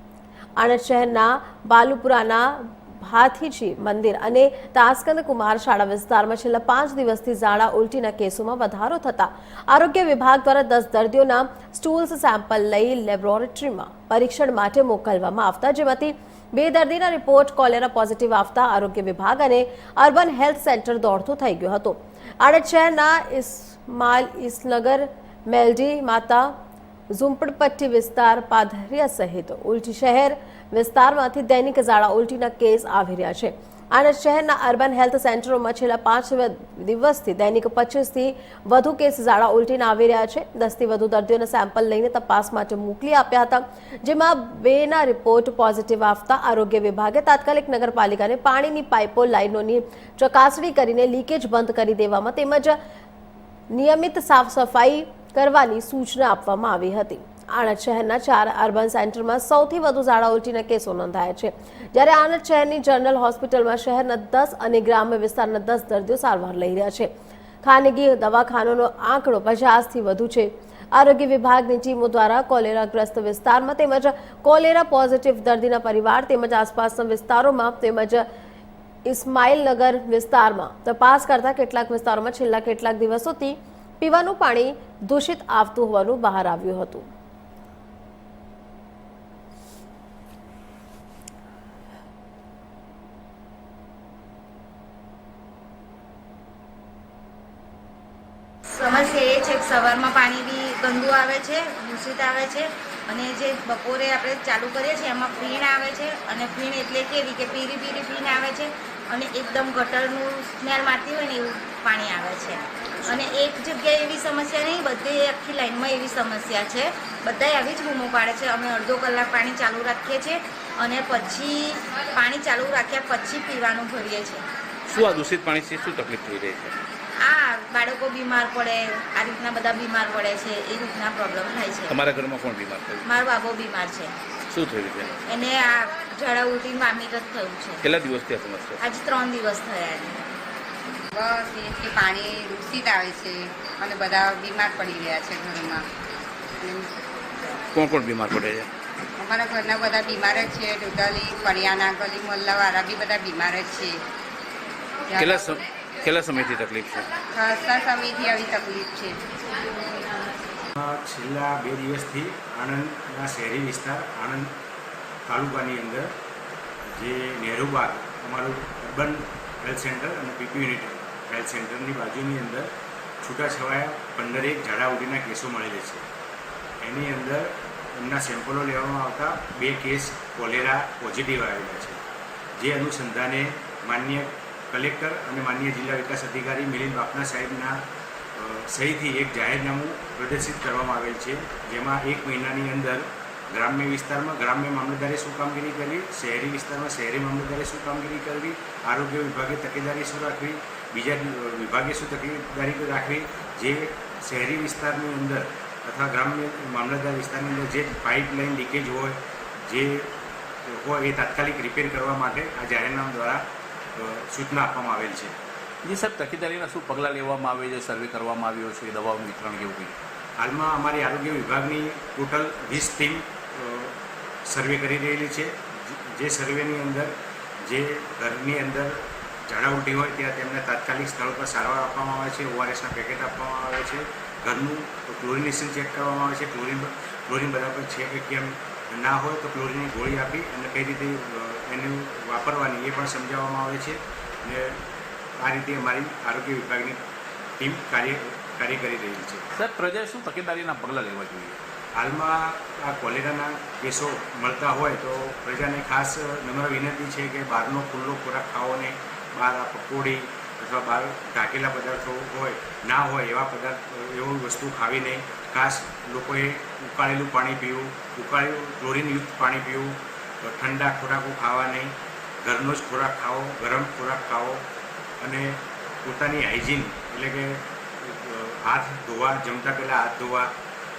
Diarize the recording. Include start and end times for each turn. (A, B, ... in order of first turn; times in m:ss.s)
0:00.6-0:26.5 A
0:27.1-0:52.8 A
0:53.7-1:07.1 A
1:07.6-1:18.2 A
1:19.0-1:27.1 A
1:38.7-2:04.4 B
2:04.9-2:06.8 C
2:07.2-2:11.9 B
2:11.9-2:13.0 C
2:13.0-2:14.1 B
2:14.5-2:15.2 C
2:15.2-2:17.8 B
2:17.8-2:18.8 C
2:18.8-2:20.2 B
2:21.1-2:25.8 D
2:26.6-2:26.9 D
2:27.7-2:28.7 C
2:29.2-2:34.0 D
2:35.1-2:35.5 D
2:35.2-2:37.1 C
2:37.3-2:39.2 D
2:40.8-2:44.5 E
2:45.3-2:46.1 E
2:46.9-2:52.7 E
2:53.2-2:56.0 E
2:56.8-3:02.0 E
3:02.6-3:07.8 E
3:08.4-3:30.1 E
3:30.6-3:33.4 E
3:34.0-3:35.4 E
3:35.8-3:40.0 C
3:40.4-3:43.9 E
3:44.4-3:47.1 E
3:47.6-4:04.8 E
4:05.4-4:07.0 E
4:07.6-4:09.4 E
4:09.6-4:11.6 C
4:12.0-4:34.6 E
4:35.2-4:40.5 E